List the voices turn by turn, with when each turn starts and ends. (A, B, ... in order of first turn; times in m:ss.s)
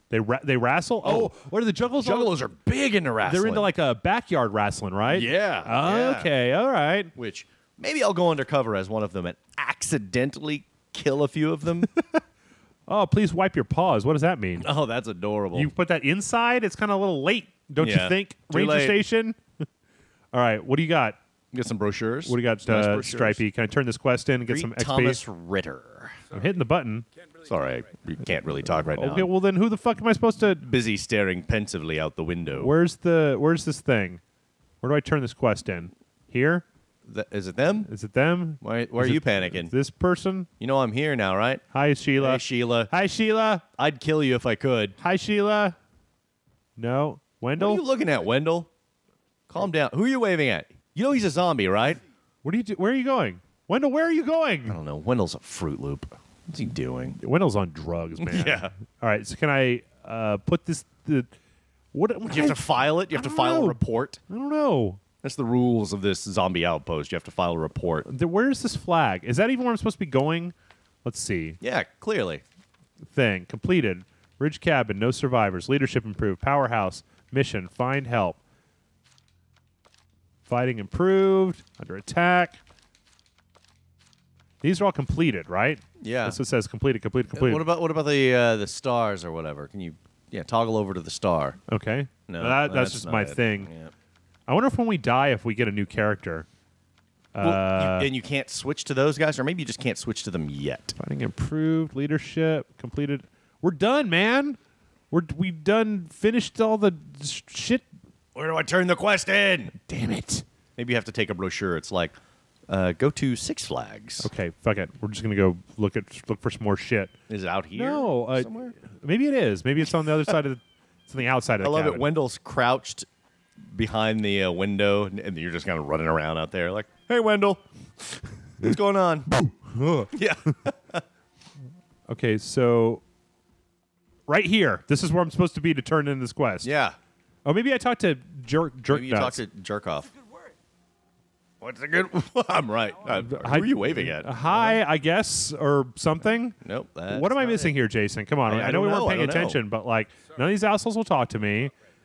0:00.1-0:02.3 A
0:01.0-0:01.3 B
0:02.0-0:03.7 B
0:03.2-0:07.1 A
0:05.1-0:06.3 B
0:07.2-0:11.9 B
0:12.9-0:14.7 A
0:14.6-0:15.7 B
0:15.5-0:19.6 A
0:17.8-0:19.0 B
0:20.3-0:21.2 A
0:21.5-0:23.4 B
0:22.2-0:25.2 A
0:24.5-0:26.3 B
0:26.3-0:27.0 A
0:27.4-0:29.3 B
0:28.9-0:30.6 A
0:30.6-0:32.7 B
0:32.5-0:34.2 A
0:34.8-0:36.6 A
0:37.0-0:37.9 B
0:37.8-0:40.5 A
0:38.6-0:39.7 B
0:40.6-0:41.6 B
0:41.7-0:43.6 A
0:42.2-0:42.9 B
0:43.8-0:45.0 B
0:45.0-0:45.8 A
0:46.8-0:47.8 A
0:47.6-0:48.7 B
0:49.5-0:52.0 B
0:52.4-0:54.8 A
0:54.7-0:57.2 B
0:57.2-1:01.3 A
0:58.2-0:58.7 B
1:01.9-1:05.0 A
1:02.3-1:04.2 B
1:05.2-1:08.0 B
1:08.0-1:11.6 A
1:11.6-1:12.4 B
1:13.1-1:18.4 A
1:20.4-1:22.6 A
1:24.6-1:27.7 A
1:26.0-1:26.4 B
1:27.3-1:31.6 B
1:31.7-1:33.7 A
1:32.3-1:33.9 B
1:34.5-1:36.4 A
1:37.3-1:38.1 A
1:37.4-1:40.9 B
1:41.0-1:44.6 A
1:45.1-1:47.8 A
1:48.3-1:49.7 B
1:49.7-1:50.4 A
1:50.8-1:52.2 B
1:52.7-1:54.3 B
1:54.2-1:57.1 A
1:57.3-1:58.7 B
1:57.7-2:02.0 A
2:01.6-2:03.1 B
2:03.7-2:09.3 B
2:09.3-2:10.1 A
2:10.1-2:11.0 B
2:12.1-2:13.0 A
2:14.3-2:16.7 A
2:16.6-2:17.0 B
2:17.4-2:19.4 A
2:18.9-2:20.1 B
2:21.6-2:24.8 B
2:23.0-2:26.6 A
2:26.6-2:27.8 B
2:27.1-2:31.7 A
2:28.4-2:29.6 B